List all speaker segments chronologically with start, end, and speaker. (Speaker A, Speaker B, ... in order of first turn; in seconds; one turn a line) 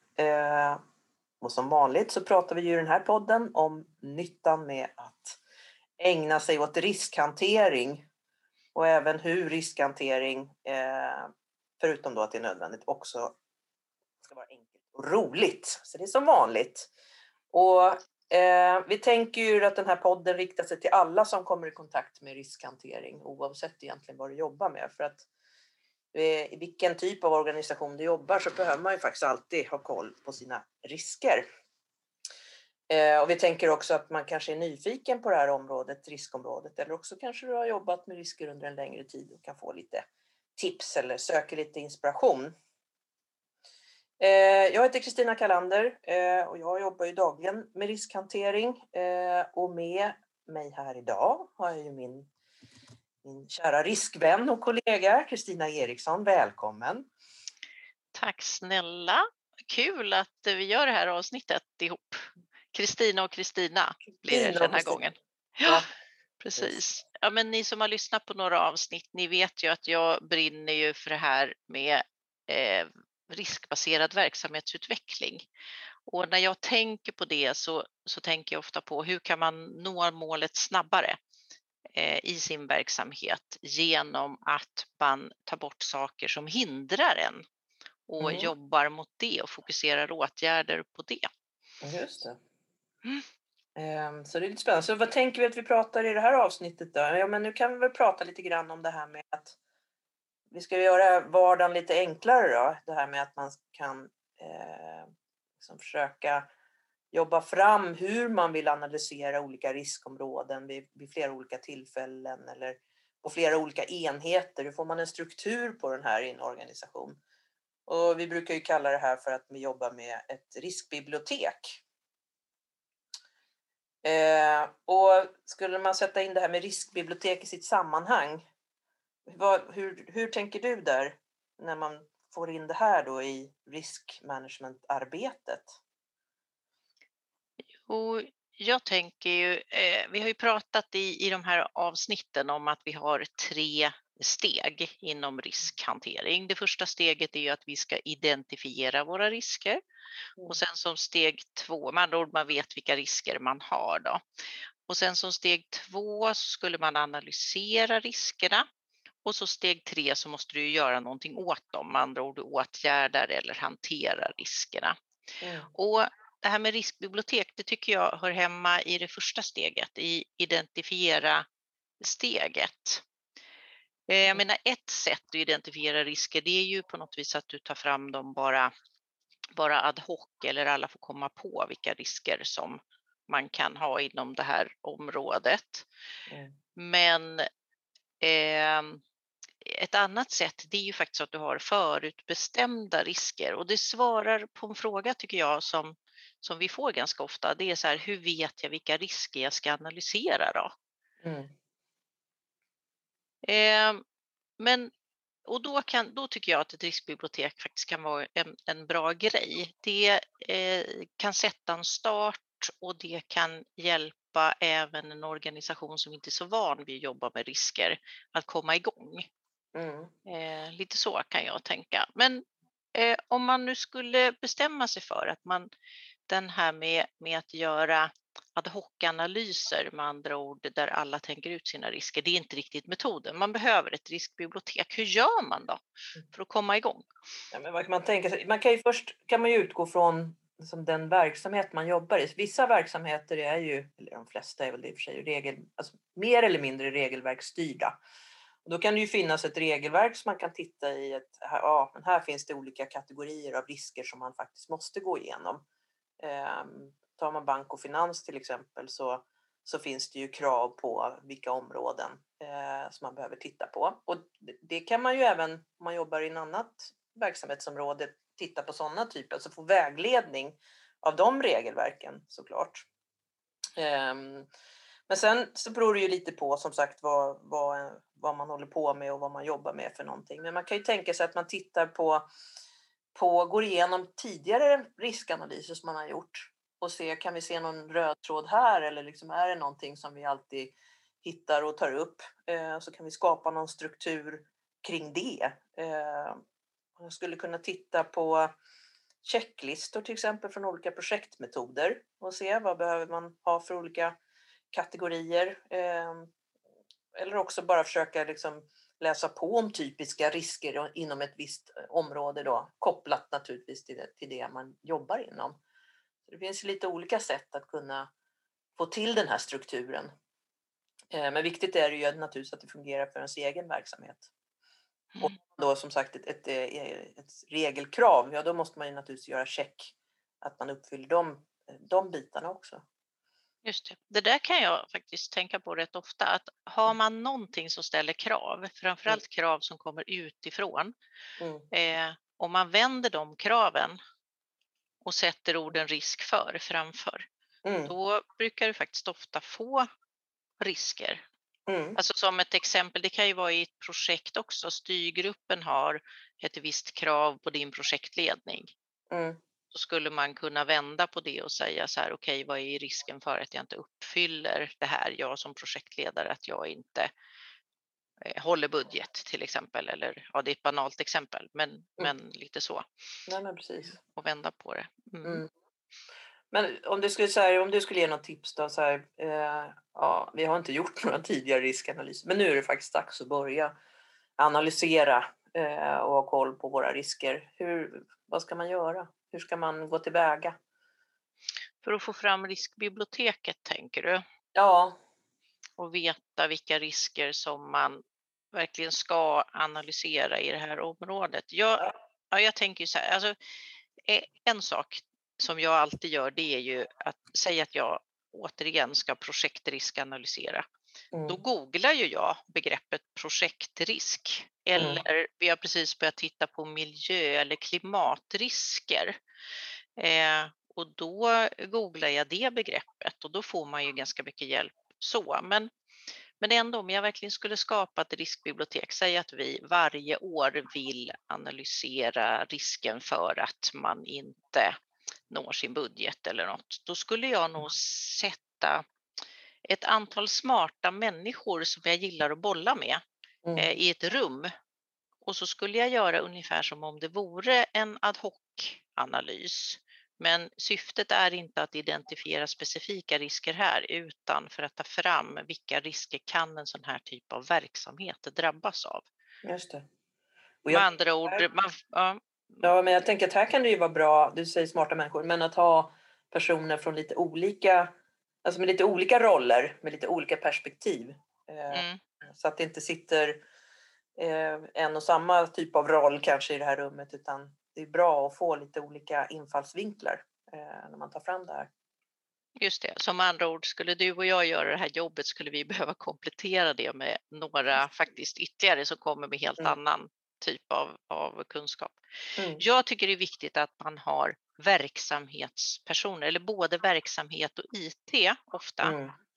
Speaker A: 0.2-0.8
Speaker A: 1.4-5.4
Speaker A: 6.0-8.1
Speaker A: 8.7-13.3
Speaker A: 14.2-16.9
Speaker A: 17.5-25.3
Speaker A: 26.1-31.4
Speaker A: 32.9-40.0
Speaker A: 40.5-42.5
Speaker A: 44.2-52.3
Speaker A: 53.2-57.0
Speaker B: 58.1-65.8
Speaker A: 64.3-65.0
Speaker B: 66.4-75.5
Speaker B: 76.1-81.2
Speaker B: 81.9-87.4
Speaker B: 88.1-91.3
Speaker A: 88.2-88.5
Speaker A: 91.8-92.4
Speaker A: 93.8-99.6
Speaker A: 100.5-106.5
Speaker A: 107.1-117.2
Speaker A: 117.9-121.8
Speaker A: 124.0-128.5
Speaker A: 129.3-135.8
Speaker B: 137.9-149.8
Speaker B: 150.4-154.2
Speaker B: 154.9-158.6
Speaker B: 159.2-164.9
Speaker A: 165.4-165.7
Speaker B: 165.7-171.4
Speaker B: 172.0-173.0
Speaker B: 174.1-178.7
Speaker B: 179.6-185.9
Speaker A: 186.3-186.5
Speaker B: 186.8-187.5
Speaker B: 188.2-189.0
Speaker B: 189.6-200.7
Speaker A: 201.2-201.5
Speaker B: 203.4-204.0
Speaker B: 204.6-204.9
Speaker B: 205.4-219.2
Speaker A: 219.7-220.1
Speaker B: 220.2-225.7
Speaker B: 226.3-235.8
Speaker B: 236.3-237.1
Speaker A: 237.5-247.9
Speaker A: 248.6-255.6
Speaker A: 256.2-272.9
Speaker A: 273.8-274.5
Speaker A: 275.1-282.2
Speaker A: 283.1-296.4
Speaker A: 297.0-298.5
Speaker A: 299.2-304.1
Speaker A: 304.7-306.3
Speaker A: 307.1-315.6
Speaker A: 316.3-318.1
Speaker A: 318.8-320.1
Speaker A: 321.1-324.3
Speaker A: 325.2-332.8
Speaker B: 333.6-340.9
Speaker A: 341.4-341.7
Speaker B: 341.7-344.0
Speaker B: 345.0-347.2
Speaker A: 347.6-347.9
Speaker B: 347.9-349.9
Speaker B: 350.6-351.2
Speaker A: 351.7-352.0
Speaker B: 351.9-358.7
Speaker A: 359.1-359.4
Speaker B: 359.7-367.1
Speaker B: 368.2-372.8
Speaker A: 373.3-374.0
Speaker B: 374.0-375.4
Speaker A: 375.2-375.5
Speaker A: 376.5-383.7
Speaker A: 384.4-390.6
Speaker B: 391.8-394.2
Speaker A: 394.5-395.0
Speaker B: 395.8-398.0
Speaker B: 398.5-403.3
Speaker B: 404.1-410.6
Speaker A: 411.1-411.4
Speaker B: 411.3-419.1
Speaker A: 414.8-415.0
Speaker B: 420.0-425.7
Speaker B: 426.4-434.7
Speaker B: 435.3-438.8
Speaker B: 439.7-443.0
Speaker A: 443.4-443.7
Speaker B: 443.6-444.5
Speaker B: 445.2-459.1
Speaker A: 459.4-459.8
Speaker A: 460.6-461.4
Speaker B: 460.7-462.7
Speaker A: 462.6-467.9
Speaker A: 468.4-473.4
Speaker B: 471.7-472.0
Speaker A: 474.2-481.7
Speaker B: 482.6-492.0
Speaker A: 492.4-492.6
Speaker B: 492.6-498.9
Speaker A: 498.8-499.1